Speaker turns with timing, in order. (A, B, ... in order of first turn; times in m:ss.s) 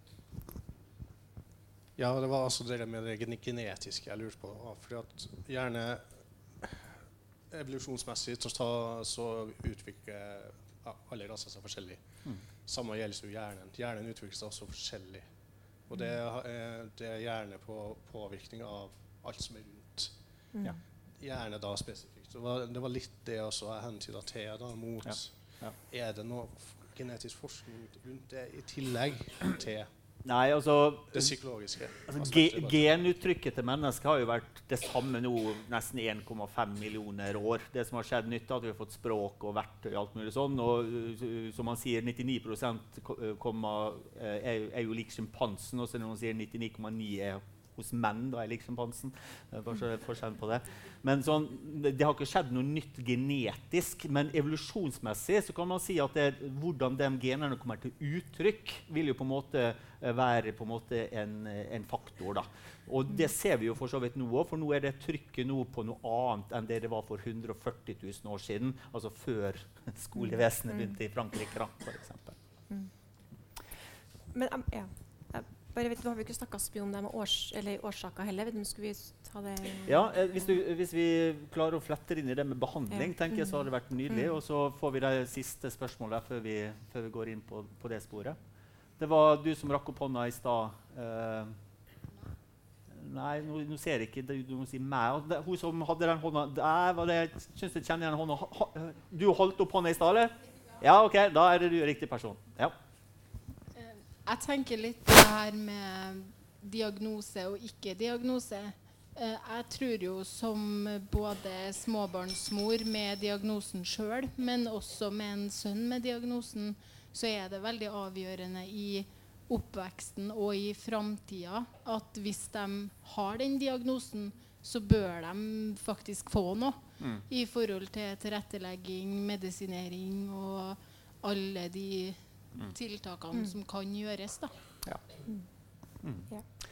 0:02.0-0:06.0 A
0:07.5-0:12.0 A
0:12.6-0:15.3 A
0:15.9-0:20.1 A
0:21.2-0:29.9 A
0:25.0-0:25.8 B
0:30.2-0:31.4 B
0:31.1-0:32.8 A
0:32.1-1:12.4 B
1:14.3-1:20.0 C
1:19.8-1:28.4 B
1:22.9-1:23.6 C
1:29.0-1:31.6 B
1:32.9-1:42.7 B
1:43.8-2:14.5 D